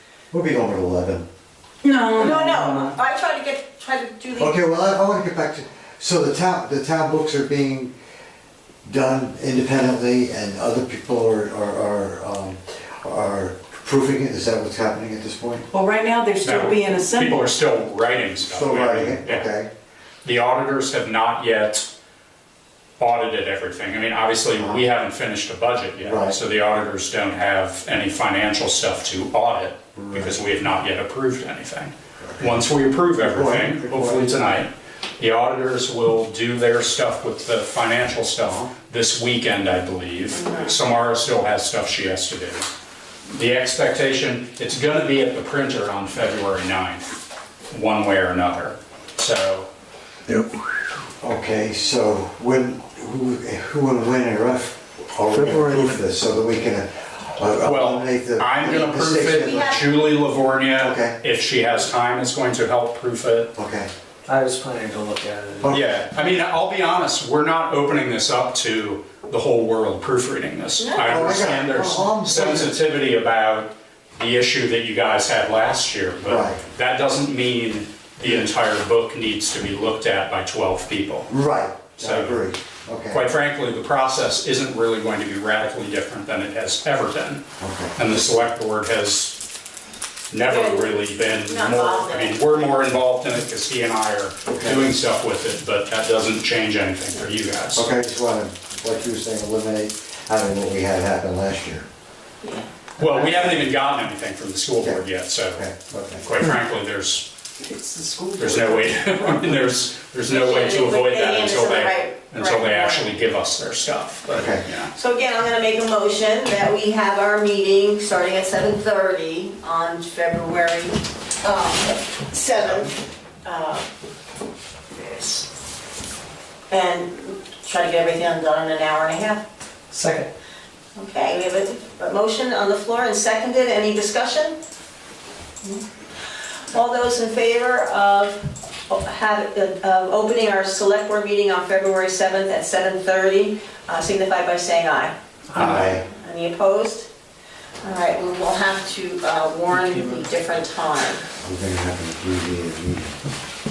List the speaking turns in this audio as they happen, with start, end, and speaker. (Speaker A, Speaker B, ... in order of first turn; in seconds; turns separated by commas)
Speaker A: 0.3-1.3, Speaker B: 1.8-3.0, Speaker C: 2.1-4.6, Speaker A: 4.3-7.9, Speaker A: 8.8-15.7, Speaker B: 15.7-17.5, Speaker D: 16.4-19.5, Speaker A: 18.4-19.7, Speaker D: 20.2-21.9, Speaker D: 23.0-42.7, Speaker A: 24.6-24.8, Speaker A: 26.0-26.4, Speaker A: 29.9-30.4, Speaker A: 32.2-32.6, Speaker A: 33.2-34.3, Speaker C: 40.3-40.7, Speaker D: 43.3-47.1, Speaker D: 47.7-49.7, Speaker A: 51.2-59.8, Speaker E: 55.3-55.9, Speaker D: 57.6-63.5, Speaker C: 59.5-59.8, Speaker A: 60.8-61.2, Speaker A: 63.5-63.9, Speaker E: 64.3-65.8, Speaker D: 65.7-81.3, Speaker C: 70.8-71.2, Speaker A: 71.1-72.8, Speaker A: 76.2-76.6, Speaker A: 81.3-83.2, Speaker D: 82.0-82.4, Speaker D: 83.1-87.4, Speaker A: 87.6-88.0, Speaker D: 88.0-89.4, Speaker D: 90.3-97.9, Speaker C: 90.5-92.6, Speaker A: 94.5-94.9, Speaker A: 97.8-101.8, Speaker C: 102.4-102.7, Speaker A: 103.0-103.7, Speaker D: 103.0-107.3, Speaker A: 104.8-106.4, Speaker B: 107.6-109.6, Speaker D: 108.4-114.9, Speaker C: 110.3-113.1, Speaker A: 114.3-114.6, Speaker C: 114.9-123.9, Speaker C: 124.9-125.5, Speaker C: 126.7-129.4, Speaker E: 129.9-130.3, Speaker C: 130.9-134.6, Speaker C: 136.7-147.1, Speaker A: 145.5-146.1, Speaker D: 145.6-145.8, Speaker C: 147.8-151.2, Speaker A: 151.4-153.2